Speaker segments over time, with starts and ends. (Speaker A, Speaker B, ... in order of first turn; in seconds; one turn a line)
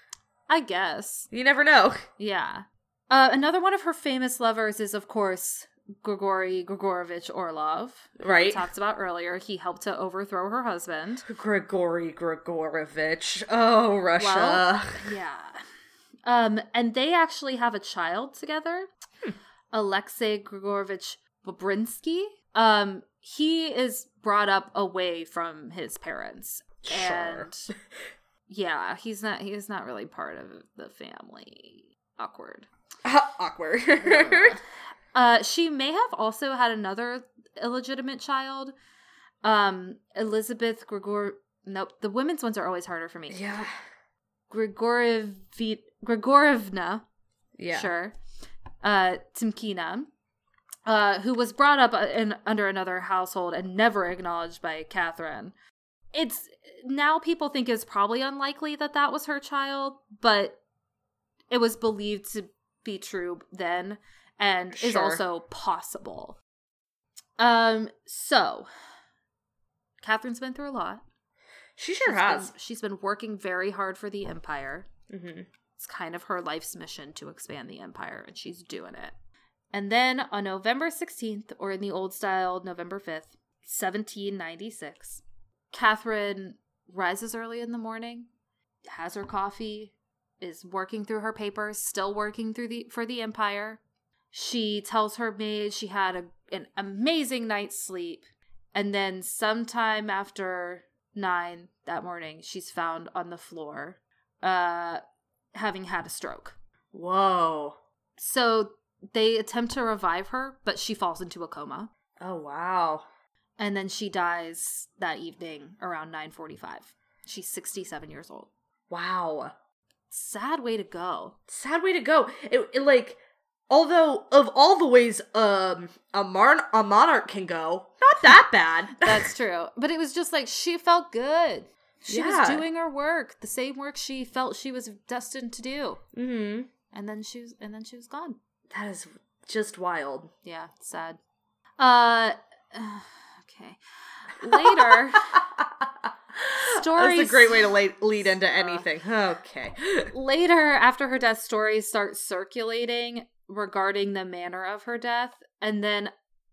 Speaker A: 0.5-1.3
Speaker B: 1.3-2.0
Speaker A: 2.2-11.3
Speaker B: 8.2-8.7
Speaker B: 11.3-15.1
Speaker A: 14.2-15.6
Speaker A: 16.2-18.9
Speaker A: 19.7-27.7
Speaker B: 26.8-27.5
Speaker A: 28.5-32.7
Speaker B: 33.0-34.6
Speaker A: 34.0-34.6
Speaker A: 35.1-38.7
Speaker A: 39.4-43.6
Speaker B: 43.3-43.7
Speaker A: 44.5-47.0
Speaker B: 47.6-47.9
Speaker A: 47.7-48.1
Speaker A: 48.8-50.1
Speaker A: 50.9-55.5
Speaker A: 56.1-60.6
Speaker A: 61.5-66.4
Speaker B: 64.7-65.2
Speaker A: 67.4-68.7
Speaker A: 70.0-71.0
Speaker B: 71.8-72.5
Speaker A: 72.0-74.9
Speaker B: 75.1-75.5
Speaker A: 75.8-79.1
Speaker A: 79.7-88.3
Speaker A: 88.9-93.8
Speaker A: 94.3-105.0
Speaker A: 105.5-106.6
Speaker B: 106.9-107.8
Speaker A: 108.2-111.9
Speaker B: 112.2-113.0
Speaker A: 113.6-118.5
Speaker B: 118.9-119.5
Speaker A: 120.1-121.3
Speaker B: 121.5-129.3
Speaker A: 128.9-136.0
Speaker B: 132.1-132.6
Speaker B: 136.1-136.7
Speaker A: 136.9-138.4
Speaker B: 138.7-140.3
Speaker A: 140.4-141.2
Speaker A: 141.8-145.4
Speaker B: 144.4-150.1
Speaker A: 146.5-148.8
Speaker A: 150.1-156.1